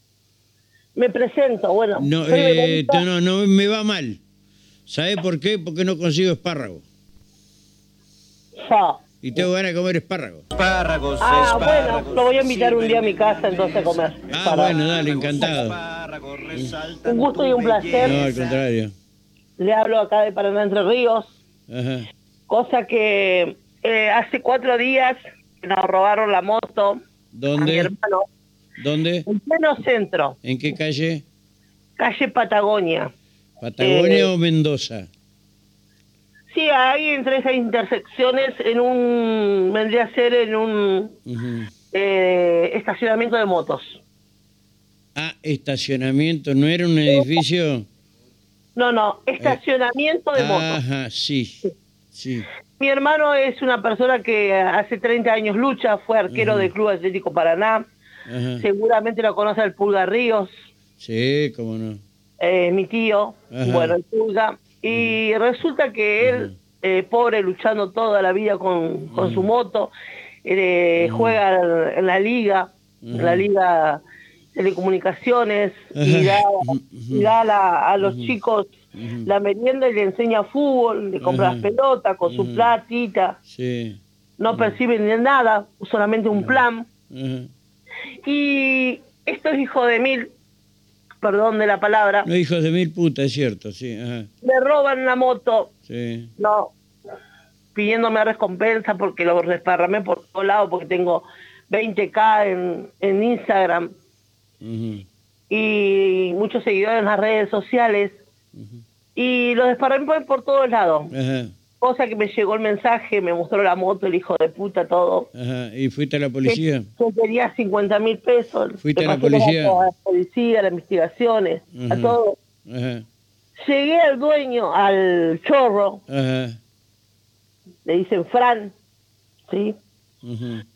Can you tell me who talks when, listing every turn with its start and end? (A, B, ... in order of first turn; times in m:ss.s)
0:01.0-0:03.0 A
0:02.0-0:04.2 B
0:04.9-0:06.8 B
0:08.6-0:09.4 A
0:09.2-0:10.4 B
0:10.6-0:13.8 C
0:11.2-0:14.8 A
0:14.3-0:15.8 B
0:14.7-0:18.4 C
0:16.5-0:16.9 B
0:17.1-0:18.2 A
0:18.0-0:18.9 B
0:19.6-0:21.3 A
0:21.7-0:22.1 B
0:22.5-0:27.0 A
0:27.3-0:27.9 B
0:27.6-0:28.2 A
0:28.8-0:29.3 B
0:29.3-0:30.4 A
0:30.4-0:31.2 B
0:32.0-0:33.1 A
0:33.6-0:35.1 B
0:33.8-0:34.3 A
0:36.5-0:41.1 A
0:41.3-0:41.7 B
0:41.9-0:44.0 A
0:45.2-0:47.9 B
0:48.8-0:50.8 A
0:50.4-0:52.5 B
0:52.8-0:57.9 A
0:56.3-0:56.7 B
0:58.3-0:58.7 B
0:58.6-1:00.5 A
1:01.0-1:02.0 B
1:02.4-1:09.9 A
1:03.5-1:04.0 B
1:04.9-1:05.2 B
1:06.2-1:06.6 B
1:09.1-1:09.5 B
1:10.4-1:14.0 A
1:11.0-1:11.4 B
1:13.0-1:13.5 B
1:14.6-1:18.8 A
1:16.0-1:17.3 B
1:18.0-1:18.4 B
1:19.0-1:19.3 B
1:19.3-1:23.4 A
1:21.2-1:21.7 B
1:22.3-1:22.7 B
1:23.5-1:24.8 B
1:24.4-1:26.8 A
1:26.3-1:27.5 B
1:28.2-1:30.3 A
1:31.2-1:32.3 A
1:32.2-1:34.3 B
1:34.4-1:35.7 A
1:35.9-1:36.3 B
1:36.4-1:36.7 A
1:37.8-1:43.9 A
1:44.6-1:45.1 B
1:45.5-1:48.2 A
1:48.6-1:48.8 B
1:49.2-1:51.1 A
1:51.1-1:51.5 B
1:51.8-1:55.3 A
1:55.4-1:56.9 B
1:56.5-2:02.4 A
1:58.8-1:59.8 B
2:01.8-2:03.1 B
2:03.6-2:06.0 A
2:06.1-2:06.6 B
2:07.9-2:08.7 A
2:09.5-2:09.8 A
2:10.2-2:10.6 B